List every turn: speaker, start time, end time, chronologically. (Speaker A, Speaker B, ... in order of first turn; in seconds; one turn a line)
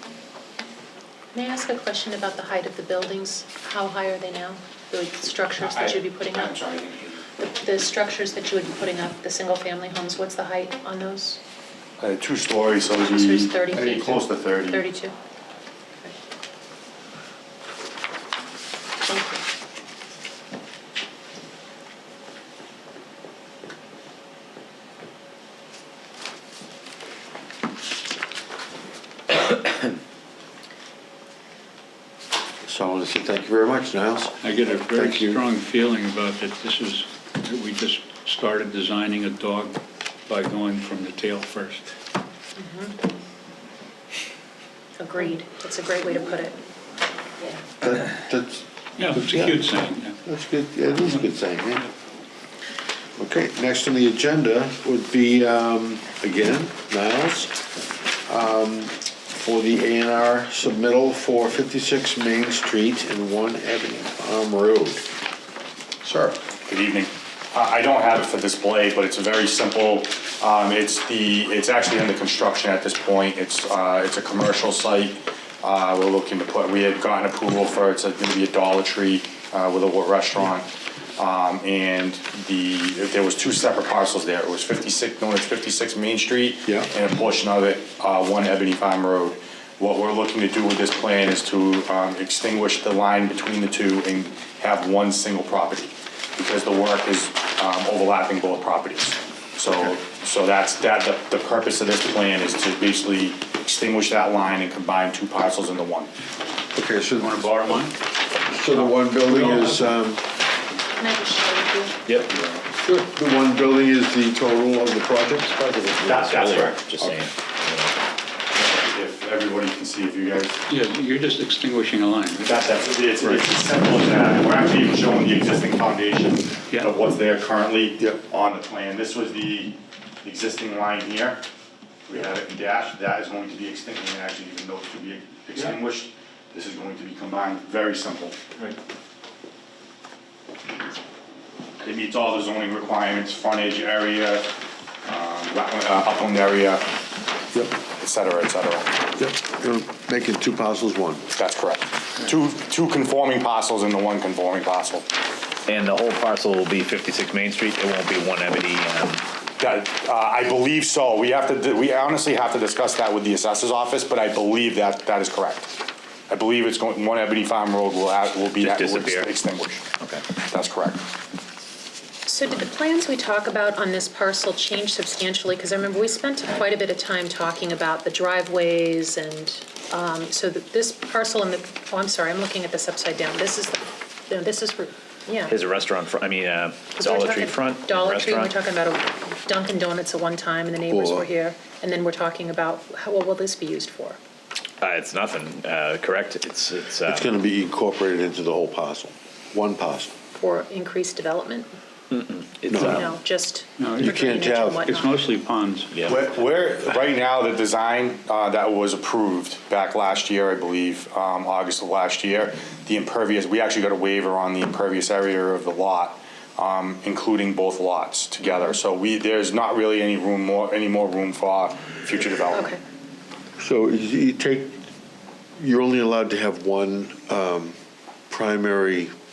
Speaker A: 1.3-6.6
Speaker B: 5.6-7.2
Speaker A: 7.4-11.4
Speaker B: 12.0-14.8
Speaker A: 13.0-15.2
Speaker A: 19.1-19.4
Speaker C: 32.7-35.4
Speaker D: 34.4-41.9
Speaker A: 42.6-43.0
Speaker A: 45.0-46.6
Speaker C: 47.8-49.7
Speaker D: 49.0-50.2
Speaker C: 50.2-51.9
Speaker C: 53.2-57.6
Speaker C: 58.3-65.1
Speaker C: 66.0-66.4
Speaker B: 66.7-106.1
Speaker C: 106.7-107.8
Speaker D: 107.2-108.0
Speaker C: 108.5-110.2
Speaker D: 108.7-110.0
Speaker A: 111.0-112.0
Speaker C: 112.7-115.5
Speaker E: 115.5-118.0
Speaker B: 116.1-117.1
Speaker B: 118.5-120.6
Speaker D: 120.7-122.5
Speaker B: 122.4-131.4
Speaker C: 123.2-123.5
Speaker B: 132.1-138.4
Speaker B: 141.8-144.5
Speaker B: 145.1-146.9
Speaker C: 147.5-147.8
Speaker B: 147.9-148.9
Speaker C: 149.2-151.3
Speaker B: 151.3-155.1
Speaker E: 155.7-159.3
Speaker B: 159.6-165.8
Speaker B: 166.3-169.8
Speaker E: 168.6-169.3
Speaker E: 170.0-170.3
Speaker B: 170.4-171.0
Speaker A: 172.3-185.6
Speaker E: 185.5-188.6
Speaker A: 187.0-194.2
Speaker C: 190.9-191.3
Speaker E: 194.8-197.3
Speaker C: 197.1-200.1
Speaker A: 200.3-201.8
Speaker E: 202.1-203.1
Speaker C: 202.7-203.1
Speaker A: 202.8-205.2
Speaker D: 203.8-205.9
Speaker C: 204.0-204.9
Speaker E: 205.9-206.2
Speaker B: 206.1-222.7
Speaker A: 222.5-222.8
Speaker C: 223.6-224.8
Speaker C: 225.6-227.8
Speaker C: 228.3-229.1